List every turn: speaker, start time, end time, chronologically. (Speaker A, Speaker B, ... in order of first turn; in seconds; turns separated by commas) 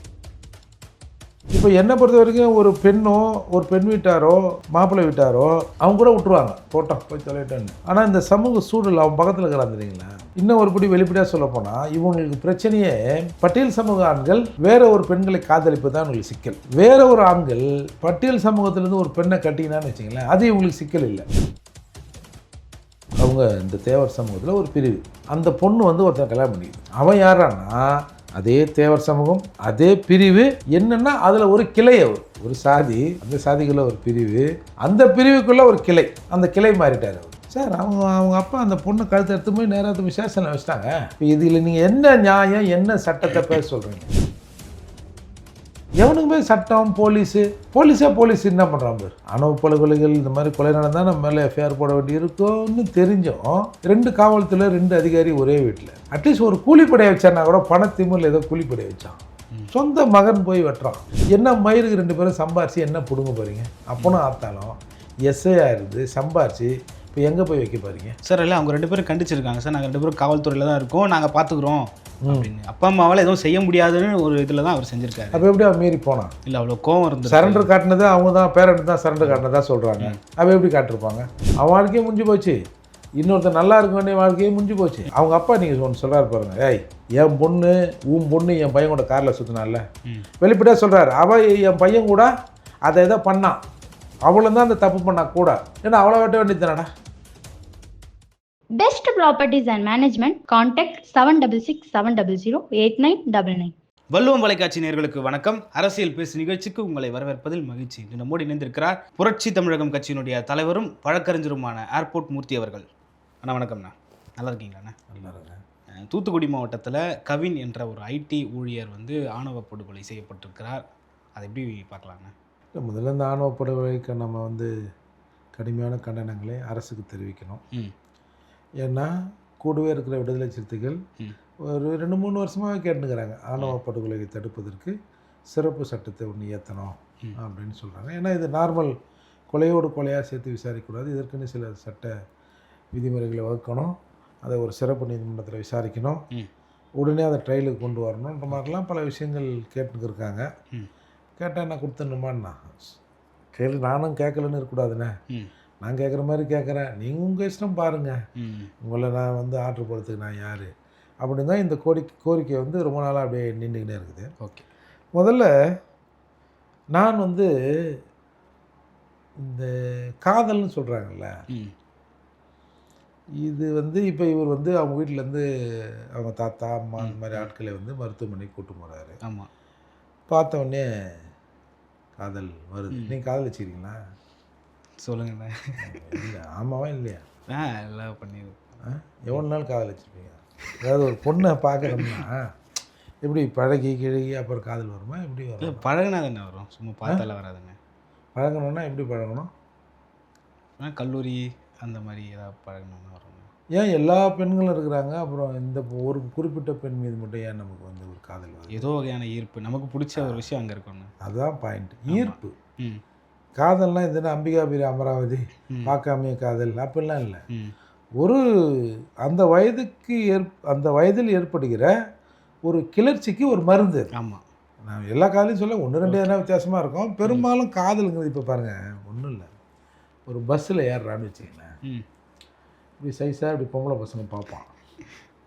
Speaker A: 1.5-21.3, Speaker A: 23.2-44.2, Speaker A: 46.0-59.2, Speaker A: 59.7-68.2, Speaker B: 68.2-75.4, Speaker A: 75.3-76.3, Speaker B: 76.5-77.7, Speaker A: 77.3-82.6, Speaker A: 83.2-89.8, Speaker A: 90.4-92.3, Speaker A: 92.9-93.6, Speaker A: 94.3-96.9, Speaker C: 98.8-103.7, Speaker B: 104.1-112.9, Speaker B: 113.4-115.0, Speaker A: 115.1-115.6, Speaker B: 115.9-120.8, Speaker B: 121.4-122.3, Speaker A: 122.8-124.7, Speaker A: 125.6-127.6, Speaker A: 128.8-131.0, Speaker A: 131.7-135.0, Speaker A: 135.5-138.9, Speaker A: 139.5-142.1, Speaker A: 142.9-146.2, Speaker A: 147.0-150.5, Speaker A: 151.4-152.9, Speaker A: 153.6-155.1, Speaker A: 155.8-158.2, Speaker B: 158.4-158.7, Speaker A: 158.8-160.7, Speaker A: 161.2-164.3, Speaker B: 164.4-164.7, Speaker A: 165.2-165.5, Speaker A: 166.9-168.0, Speaker A: 169.4-169.7, Speaker A: 170.2-171.3, Speaker B: 171.5-171.7, Speaker A: 173.4-175.4, Speaker A: 176.2-179.2, Speaker B: 177.0-177.5, Speaker B: 179.2-179.5, Speaker A: 180.3-180.9, Speaker A: 182.2-184.0, Speaker B: 182.9-183.2, Speaker B: 185.0-186.3, Speaker A: 185.8-187.2, Speaker B: 187.5-188.6, Speaker A: 188.8-192.5, Speaker B: 191.9-192.2, Speaker A: 193.2-195.8, Speaker B: 195.6-197.8, Speaker A: 198.3-199.5, Speaker B: 200.8-203.5, Speaker A: 203.8-208.9, Speaker B: 208.7-211.1, Speaker A: 211.2-212.6, Speaker B: 212.1-213.0, Speaker A: 213.6-217.4, Speaker A: 219.2-221.9, Speaker A: 222.7-224.1, Speaker B: 224.1-224.4, Speaker A: 224.8-229.5, Speaker B: 226.1-226.4, Speaker A: 230.3-231.7, Speaker A: 233.0-234.7